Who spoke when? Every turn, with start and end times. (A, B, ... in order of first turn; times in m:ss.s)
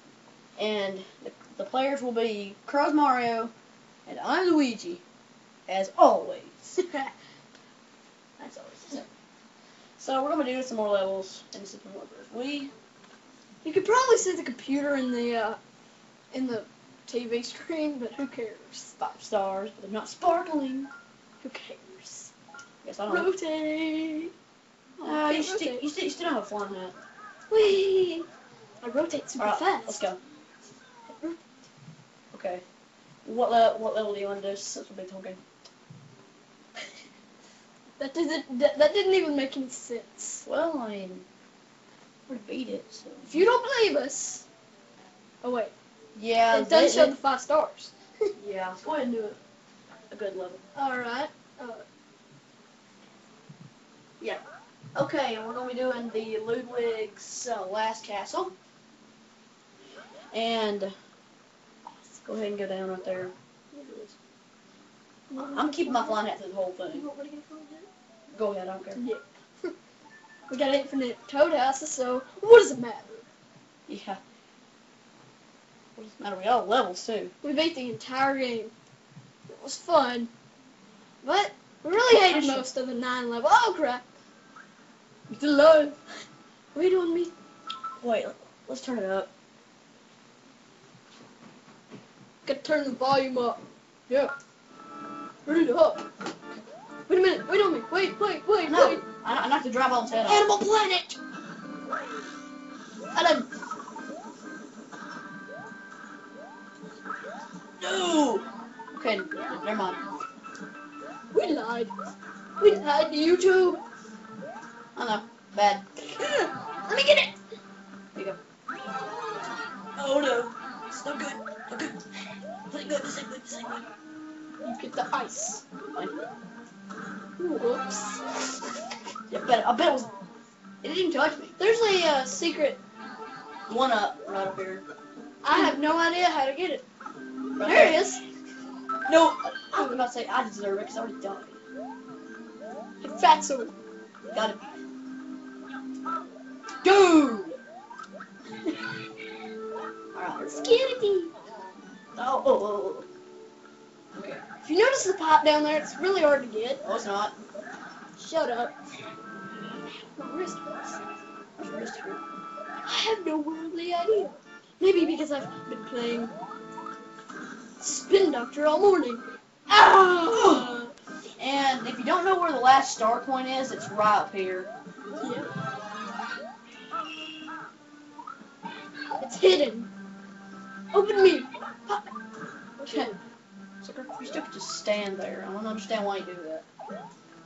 0:00.6-0:03.5 A
0:04.0-0:05.0 A
0:05.7-0:06.8 A
0:08.4-0:09.1 A
0:10.0-0:12.7 A
0:13.6-0:15.6 B
0:16.3-0:18.9 B
0:19.0-0:20.9 A
0:21.4-0:22.3 B
0:22.8-0:23.3 A
0:23.1-0:24.3 B
0:25.0-0:25.9 B
0:25.0-0:27.0 A
0:27.5-0:28.3 B
0:28.8-0:30.0 B
0:29.4-0:30.2 A
0:32.3-0:32.6 A
0:33.2-0:35.4 A
0:38.0-0:40.4 B
0:40.4-0:41.2 A
0:42.3-0:43.4 A
0:43.2-0:44.4 B
0:45.4-0:45.7 B
0:46.1-0:47.2 A
0:46.5-0:47.9 B
0:48.4-0:49.4 A
0:50.1-0:50.6 A
0:50.7-0:51.8 B
0:54.9-0:58.5 A
1:00.3-1:00.9 A
1:02.2-1:03.3 A
1:03.7-1:04.1 B
1:05.3-1:06.2 B
1:05.4-1:07.1 A
1:06.9-1:07.9 B
1:08.3-1:09.0 A
1:09.0-1:09.7 B
1:10.5-1:13.2 B
1:13.9-1:14.2 A
1:16.0-1:17.3 A
1:17.4-1:18.7 B
1:19.5-1:20.3 B
1:21.2-1:24.0 B
1:22.0-1:22.6 A
1:25.3-1:25.9 B
1:26.7-1:27.3 B
1:28.0-1:29.3 A
1:32.4-1:34.3 B
1:35.4-1:36.0 B
1:37.1-1:39.0 B
1:38.6-1:40.5 A
1:40.2-1:41.2 B
1:43.1-1:43.4 A
1:47.8-1:50.0 A
1:51.3-1:51.9 B
1:52.6-1:53.8 B
1:54.9-1:55.8 A
1:56.1-1:57.3 B
2:00.0-2:02.0 A
2:02.7-2:03.8 A
2:04.6-2:05.6 B
2:07.4-2:08.4 B
2:09.3-2:10.1 A
2:10.8-2:11.6 A
2:11.6-2:12.8 B
2:13.7-2:14.8 A
2:15.4-2:16.8 B
2:17.6-2:18.1 A
2:17.6-2:18.2 B
2:19.1-2:21.6 A
2:23.0-2:23.7 B
2:24.3-2:24.6 A
2:26.8-2:27.6 A
2:30.1-2:30.6 A
2:30.4-2:31.3 B
2:32.2-2:33.1 A
2:34.1-2:34.4 A
2:34.6-2:36.8 B
2:36.8-2:37.3 A
2:38.2-2:38.7 B
2:40.1-2:41.0 B
2:41.6-2:42.2 A
2:42.8-2:46.3 B
2:47.8-2:49.2 B
2:49.7-2:50.7 A
2:50.0-2:50.9 B
2:51.4-2:54.7 A
2:55.2-2:55.5 B
2:59.2-2:59.9 B
3:00.9-3:02.1 B
3:02.8-3:03.2 B
3:02.8-3:03.1 A
3:03.8-3:06.6 A